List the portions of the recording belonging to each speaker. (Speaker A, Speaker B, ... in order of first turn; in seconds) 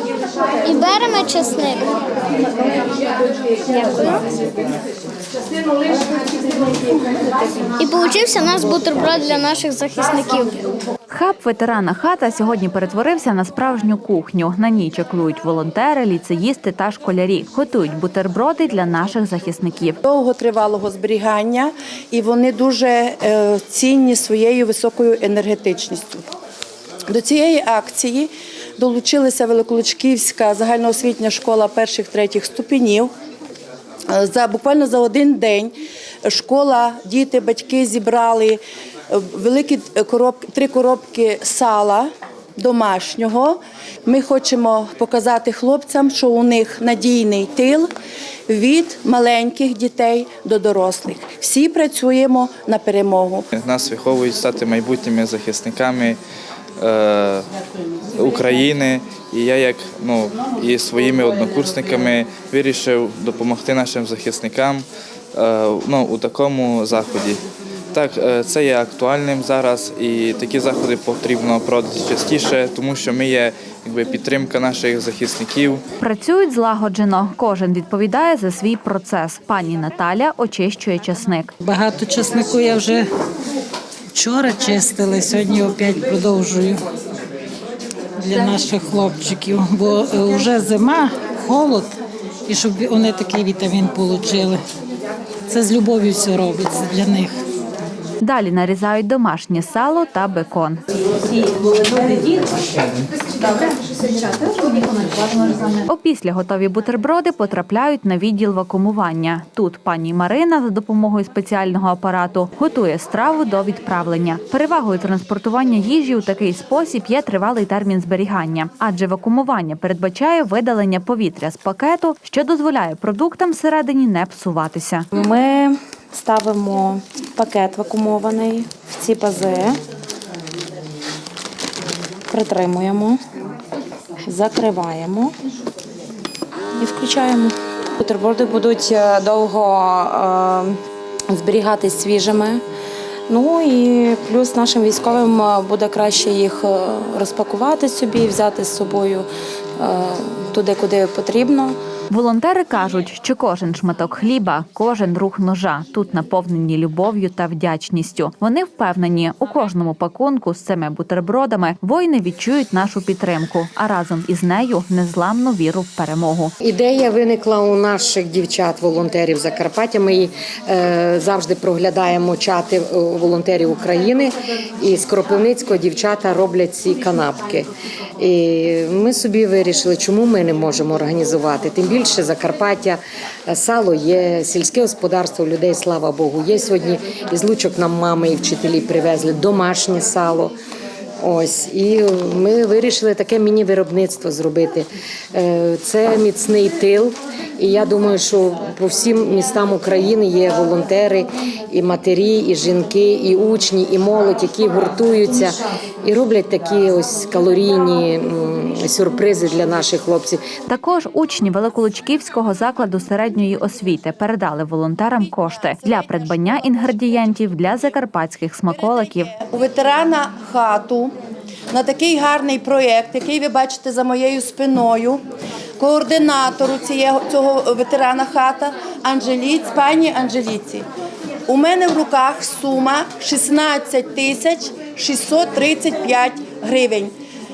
Speaker A: 0.6-1.9, 3.7-4.3, 7.8-10.7
Speaker B: 11.1-20.0, 76.0-81.5, 98.2-102.6, 103.4-103.7, 104.3-125.1, 152.1-166.5, 210.7-219.3
Speaker C: 20.1-26.2, 27.1-33.1, 34.1-35.7, 36.2-38.6, 39.1-47.9, 48.5-53.5, 215.6-216.9, 218.7-221.1, 221.7-225.2, 225.8-230.9, 231.5-237.1
Speaker D: 53.5-56.2, 56.8-57.5, 58.1-64.8, 65.4-67.4, 67.9-75.8
Speaker E: 81.6-83.1, 84.1-86.8, 88.2-94.6, 95.5-97.3
Speaker F: 125.1-129.8, 132.3-133.2, 134.3-135.3, 136.8-140.8, 141.3-142.6, 143.3-149.3, 149.8-151.8
Speaker G: 166.6-190.5, 191.2-210.4